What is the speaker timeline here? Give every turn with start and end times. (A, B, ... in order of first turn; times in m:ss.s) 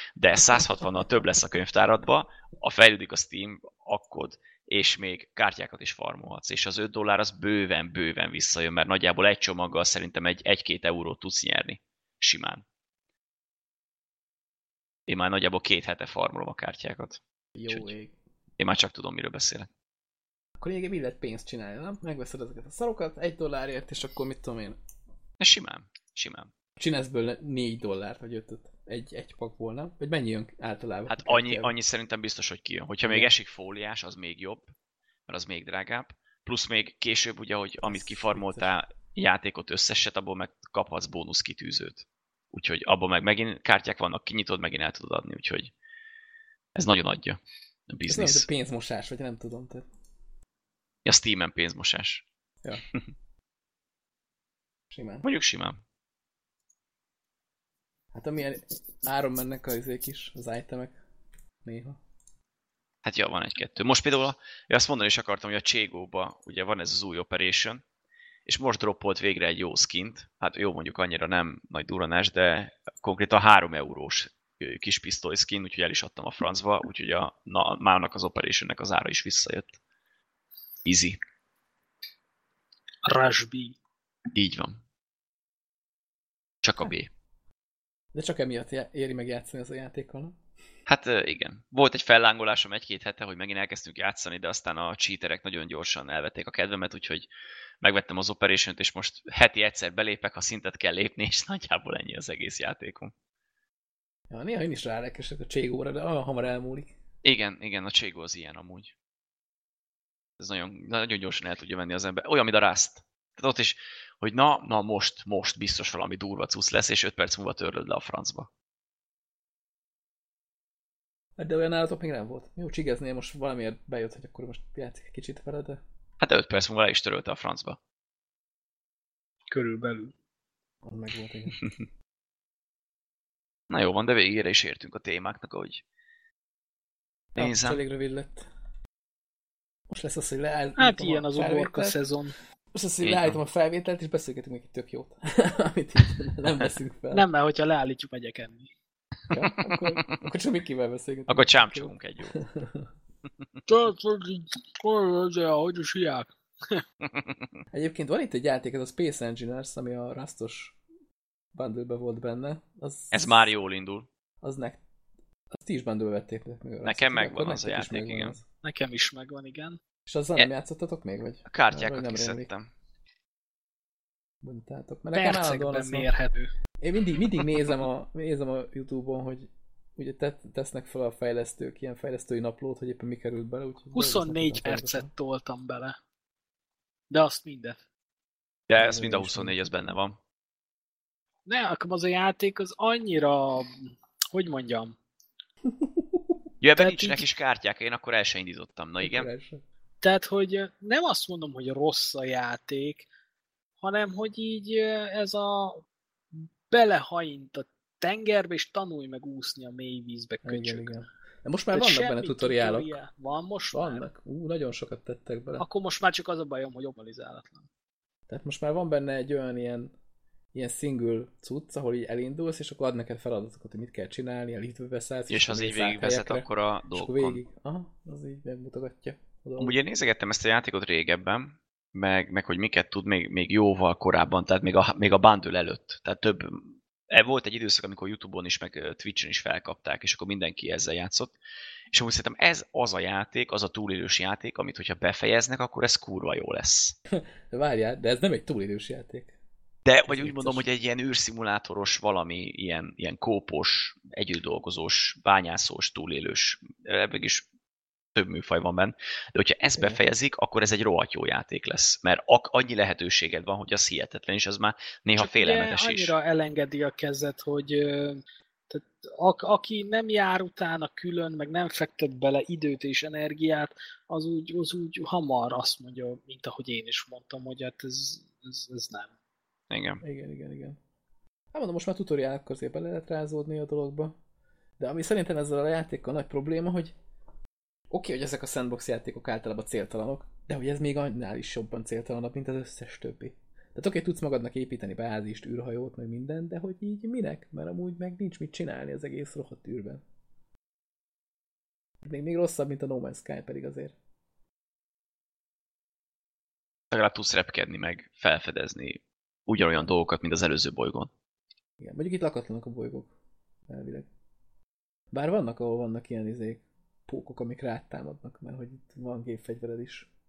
0:00.2-0:12.6 A
0:15.1-0:17.9 A
0:17.6-0:18.1 B
0:18.6-0:19.7 A
0:20.6-0:24.8 B
0:25.4-0:26.5 A
0:26.8-0:31.7 B
0:31.1-0:34.7 A
0:33.0-0:33.3 B
0:35.3-0:45.7 A
0:37.8-0:38.8 B
0:46.8-0:48.5 A
0:48.1-0:49.9 B
0:51.0-0:52.2 A
0:54.9-0:55.2 B
0:55.2-0:55.8 A
0:58.1-1:01.0 B
1:01.6-1:02.0 B
1:03.0-1:07.8 A
1:08.5-1:19.8 A
1:20.8-1:21.2 A
1:23.0-1:23.8 C
1:24.3-1:24.8 A
1:26.6-1:27.1 A
1:28.1-1:30.4 B
1:30.9-1:37.3 A
1:37.8-1:43.1 A
1:44.3-1:47.0 B
1:47.2-1:48.9 A
1:50.4-1:58.5 A
2:01.4-2:05.8 B
2:06.2-2:07.8 A
2:09.5-2:10.1 C
2:10.8-2:11.6 B
2:13.7-2:15.8 A
2:17.4-2:17.8 A
2:17.4-2:18.5 B
2:19.9-2:22.0 B
2:20.8-2:22.4 C
2:22.7-2:27.3 B
2:23.0-2:23.4 A
2:27.1-2:28.7 C
2:29.3-2:32.9 B
2:29.7-2:30.2 A
2:31.3-2:32.4 A
2:33.7-2:36.8 C
2:37.0-2:37.5 A
2:37.7-2:40.8 B
2:41.5-2:43.5 B
2:43.1-2:44.1 A
2:44.4-2:44.8 B
2:45.5-2:48.4 B
2:46.8-2:48.4 A
2:48.6-2:49.8 C
2:50.1-2:52.5 B
2:51.5-2:52.7 A
2:54.4-2:56.1 B
2:55.1-2:56.5 C
2:56.8-3:05.1 B
3:03.9-3:06.0 C
3:07.1-3:07.8 C
3:08.7-3:10.2 A
3:08.7-3:09.7 B
3:11.5-3:15.0 C
3:15.7-3:16.4 B
3:16.6-3:19.3 A
3:16.8-3:17.2 C
3:19.0-3:19.6 B
3:20.0-3:23.1 C
3:23.8-3:25.8 C
3:26.4-3:30.9 C
3:30.4-3:32.9 B
3:31.7-3:34.1 C
3:33.7-3:35.6 B
3:35.6-3:37.7 C
3:38.3-3:39.9 B
3:40.5-3:49.8 B
3:45.3-3:47.4 A
3:49.6-4:01.4 A
4:01.9-4:07.0 A
4:07.1-4:09.4 B
4:09.9-4:17.5 A
4:10.1-4:10.7 B
4:18.2-4:26.2 A
4:25.2-4:39.1 C
4:39.7-4:40.0 A
4:40.0-4:40.8 B
4:41.5-4:44.2 B
4:44.8-4:47.0 B
4:47.9-5:00.0 B
5:02.0-5:04.0 B
5:06.9-5:11.1 A
5:11.8-5:13.1 B
5:13.7-5:14.1 B
5:15.1-5:20.1 B